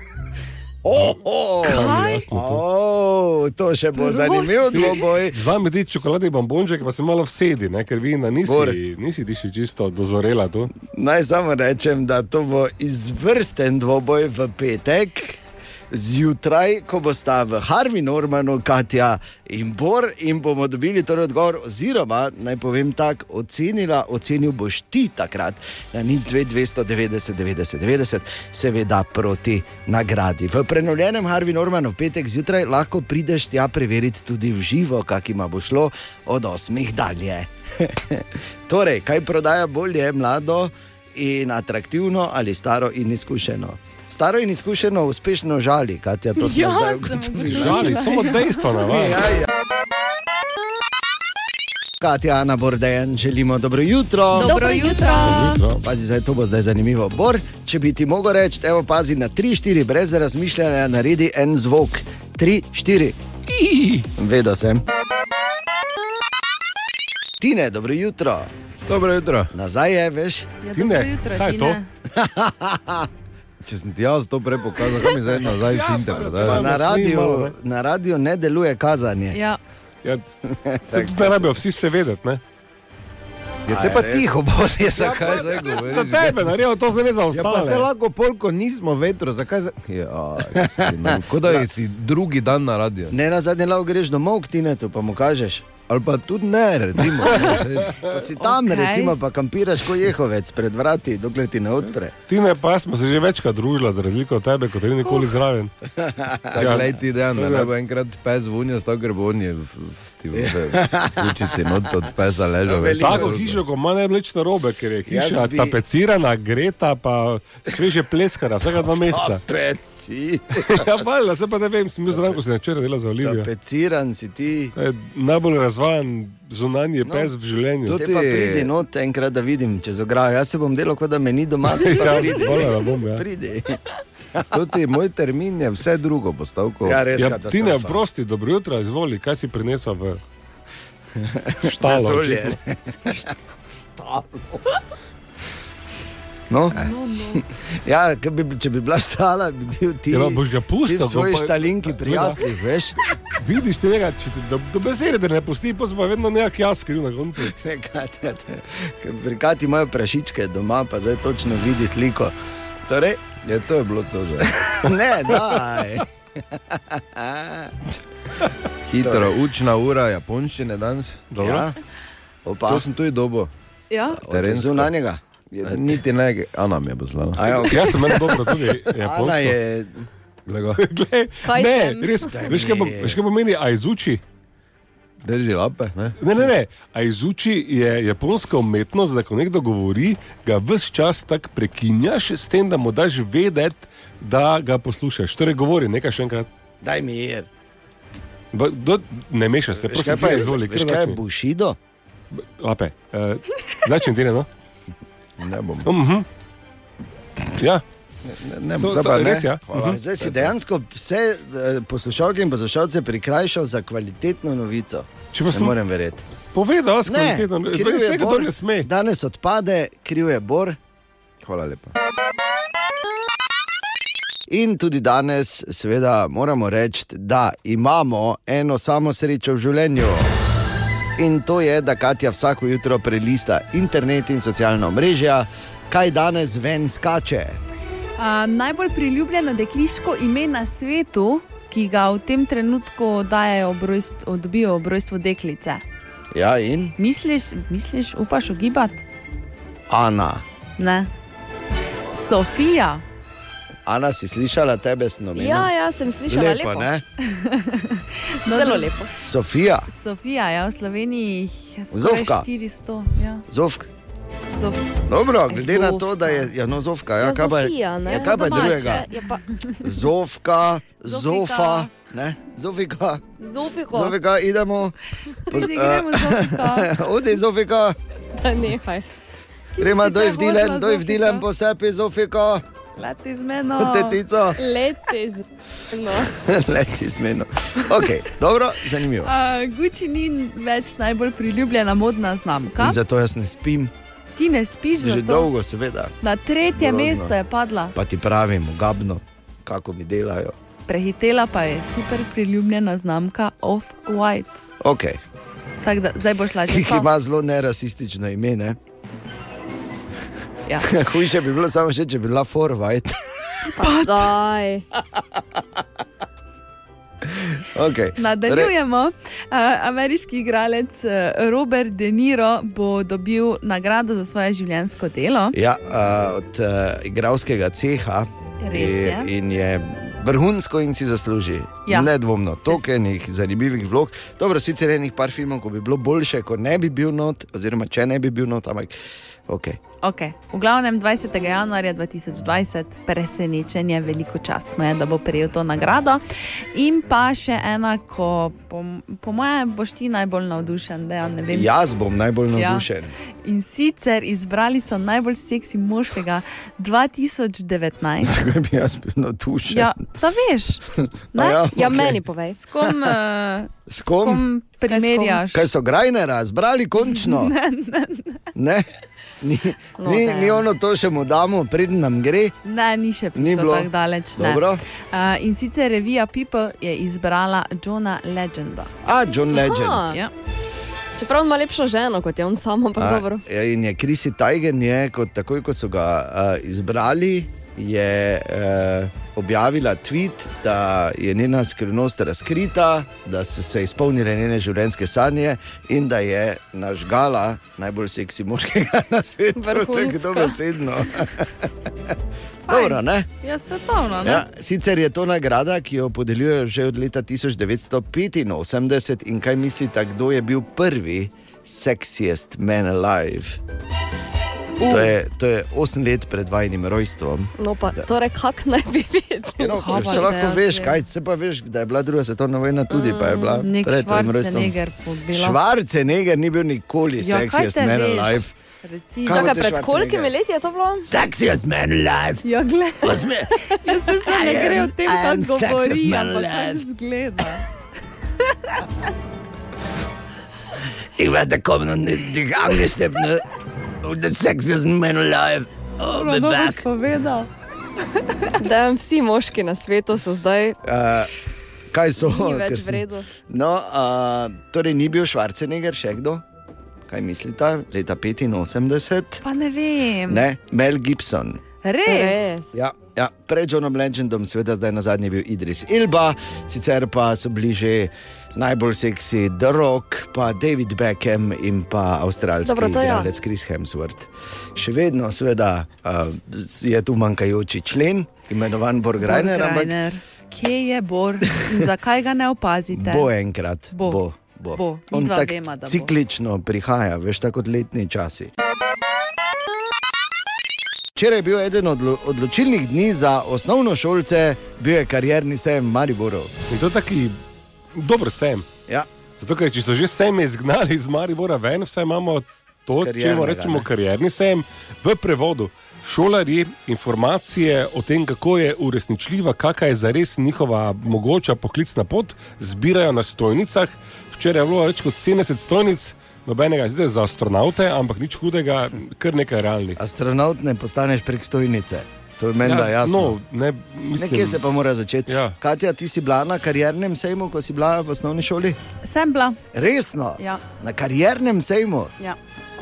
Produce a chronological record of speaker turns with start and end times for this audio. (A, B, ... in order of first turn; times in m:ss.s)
0:00.8-0:05.4 A
0:00.9-0:02.6 B
0:01.7-0:02.2 C
0:04.0-0:05.0 C
0:04.7-0:10.7 B
0:08.4-0:08.8 A
0:10.8-0:15.4 A
0:15.9-0:48.0 A
0:46.4-0:48.7 C
0:47.4-0:49.3 B
0:48.9-0:49.5 A
0:52.0-0:54.6 A
0:54.3-0:55.6 C
0:54.4-0:55.5 D
0:55.2-0:55.8 B
0:55.7-1:03.2 A
1:03.7-1:04.0 B
1:04.2-1:04.8 A
1:07.4-1:08.5 A
1:08.8-1:09.5 E
1:09.5-1:10.5 A
1:10.6-1:11.8 C
1:10.7-1:11.8 B
1:12.1-1:13.1 A
1:13.6-1:16.7 E
1:15.3-1:17.5 B
1:16.4-1:19.4 A
1:19.3-1:19.6 C
1:20.5-1:21.6 A
1:20.8-1:22.4 B
1:23.7-1:25.8 A
1:23.7-1:26.6 E
1:25.1-1:27.9 B
1:27.3-1:33.1 E
1:30.6-1:31.7 A
1:33.1-1:35.7 A
1:35.9-1:38.0 E
1:38.0-1:42.1 A
1:38.4-1:39.2 C
1:42.3-1:45.7 B
1:46.0-1:46.8 A
1:46.5-1:53.6 E
1:46.5-1:47.7 B
1:50.3-1:51.7 A
1:52.6-1:53.4 A
1:52.9-1:59.4 B
1:55.0-1:55.8 A
1:58.7-2:01.0 A
2:00.6-2:03.5 B
2:02.1-2:02.4 A
2:03.2-2:04.7 A
2:04.7-2:07.9 B
2:07.0-2:07.3 A
2:07.8-2:08.7 E
2:07.9-2:13.8 A
2:11.6-2:13.2 B
2:14.5-2:17.1 E
2:16.8-2:18.0 A
2:17.1-2:20.2 B
2:21.2-2:23.3 A
2:21.6-2:22.6 B
2:24.0-2:24.5 A
2:26.5-2:33.0 A
2:26.7-2:27.4 C
2:30.1-2:32.4 B
2:33.3-2:37.5 B
2:37.4-2:42.3 A
2:42.8-2:43.2 A
2:43.4-2:44.6 E
2:44.6-2:47.8 A
2:48.9-2:51.3 E
2:49.0-2:49.3 A
2:51.3-2:51.7 B
2:51.4-2:51.7 A
2:52.4-2:52.8 A
2:52.7-2:53.5 E
2:53.9-2:54.2 C
2:54.2-2:56.0 A
2:54.2-2:54.9 E
2:55.5-2:57.7 E
2:57.4-3:00.0 A
2:57.7-2:59.6 B
3:00.5-3:00.8 E
3:00.8-3:04.2 B
3:01.4-3:02.3 D
3:02.2-3:03.2 A
3:05.2-3:06.2 E
3:06.2-3:16.5 B
3:16.8-3:17.5 A
3:18.5-3:21.2 B
3:19.7-3:21.8 A
3:22.3-3:24.5 B
3:25.4-3:25.9 E
3:25.8-3:26.2 B
3:27.6-3:27.8 B
3:28.3-3:30.5 E
3:28.8-3:30.0 B
3:29.7-3:36.2 A
3:35.3-3:35.8 B
3:36.5-3:38.9 B
3:37.0-3:40.8 A
3:41.4-3:41.9 E
3:44.5-3:50.3 A
3:51.2-3:57.6 A
3:58.2-4:05.8 C
4:06.3-4:06.9 A
4:07.0-4:09.0 C
4:09.9-4:10.4 A
4:10.8-4:11.1 C
4:12.1-4:13.0 C
4:13.8-4:15.7 A
4:15.4-4:16.9 D
4:16.2-4:17.0 A
4:17.3-4:18.9 C
4:18.5-4:19.1 D
4:19.2-4:19.9 A
4:19.9-4:23.4 C
4:21.9-4:22.5 A
4:23.5-4:23.9 A
4:24.5-4:24.9 C
4:25.1-4:29.0 A
4:25.5-4:26.5 C
4:27.2-4:29.4 D
4:28.1-4:29.0 C
4:29.8-4:33.2 A
4:31.0-4:31.9 C
4:33.4-4:34.1 D
4:33.9-4:35.0 A
4:35.5-4:36.9 C
4:35.5-4:38.0 A
4:38.4-4:39.0 D
4:39.8-4:41.4 C
4:39.8-4:42.6 A
4:43.0-4:44.2 C
4:43.8-4:44.6 A
4:44.5-4:46.3 D
4:46.3-4:49.3 A
4:49.2-4:53.0 C
4:52.8-4:53.9 A
4:54.4-4:55.5 C
4:55.0-4:56.1 A
4:56.2-4:57.9 C
4:56.8-4:57.3 A
4:57.9-5:00.5 A
5:00.9-5:04.6 C
5:04.8-5:05.2 A
5:05.8-5:07.1 C
5:06.7-5:08.8 A
5:10.8-5:13.1 A
5:13.7-5:14.8 D
5:13.8-5:14.3 C
5:17.2-5:18.7 A
5:18.2-5:25.5 C
5:25.5-5:38.9 A
5:28.6-5:29.3 C
5:31.8-5:32.8 C
5:39.5-5:39.8 A
5:40.0-5:46.2 C
5:46.7-5:51.7 C
5:51.5-5:53.1 A
5:52.5-5:52.8 C
5:53.4-5:58.4 C
5:58.2-5:59.9 A
5:59.7-6:01.6 C
6:01.3-6:02.2 A
6:01.7-6:02.6 D
6:02.6-6:05.7 C
6:03.9-6:04.4 A
6:04.9-6:05.4 D
6:05.5-6:07.5 A
6:07.0-6:08.4 C
6:08.5-6:08.9 A
6:09.4-6:12.5 A
6:10.0-6:10.6 D
6:12.6-6:18.9 C
6:13.3-6:14.8 A
6:19.0-6:20.1 A
6:19.5-6:20.2 D
6:21.2-6:23.4 D
6:23.0-6:41.7 A
6:39.6-6:40.5 D
6:42.7-6:43.3 A
6:42.7-6:44.4 C
6:44.2-6:53.6 A
6:54.8-6:55.1 C
6:54.8-6:58.1 A
6:57.6-7:00.2 D
6:59.6-7:04.7 A
6:59.7-7:01.0 C
7:02.9-7:03.6 D
7:03.6-7:05.6 C
7:05.3-7:08.5 A
7:07.2-7:09.6 C
7:09.2-7:10.3 A
7:09.3-7:11.1 D
7:11.1-7:12.4 A
7:12.4-7:17.6 C
7:13.0-7:13.5 A
7:14.2-7:16.8 A
7:21.2-7:23.4 A
7:24.0-7:26.8 A
7:26.0-7:27.5 C
7:28.6-7:30.8 D
7:30.8-7:31.3 A
7:31.9-7:36.4 A
7:32.2-7:33.3 D
7:37.1-7:39.4 A
7:39.4-7:40.4 C
7:40.3-7:41.6 A
7:41.8-7:42.5 C
7:42.0-7:42.7 D
7:42.7-8:00.0 A
7:52.6-7:53.3 D
7:59.2-8:03.3 C
8:02.9-8:08.5 A
8:03.9-8:04.2 C
8:04.7-8:06.1 C
8:11.1-8:16.5 A
8:16.7-8:17.4 B
8:17.9-8:18.7 B
8:19.4-8:40.0 B
8:23.0-8:23.9 A
8:40.0-8:43.4 A
8:42.6-8:44.6 B
8:44.1-8:48.8 A
8:45.3-8:45.5 B
8:49.0-8:49.6 C
8:49.7-8:52.1 A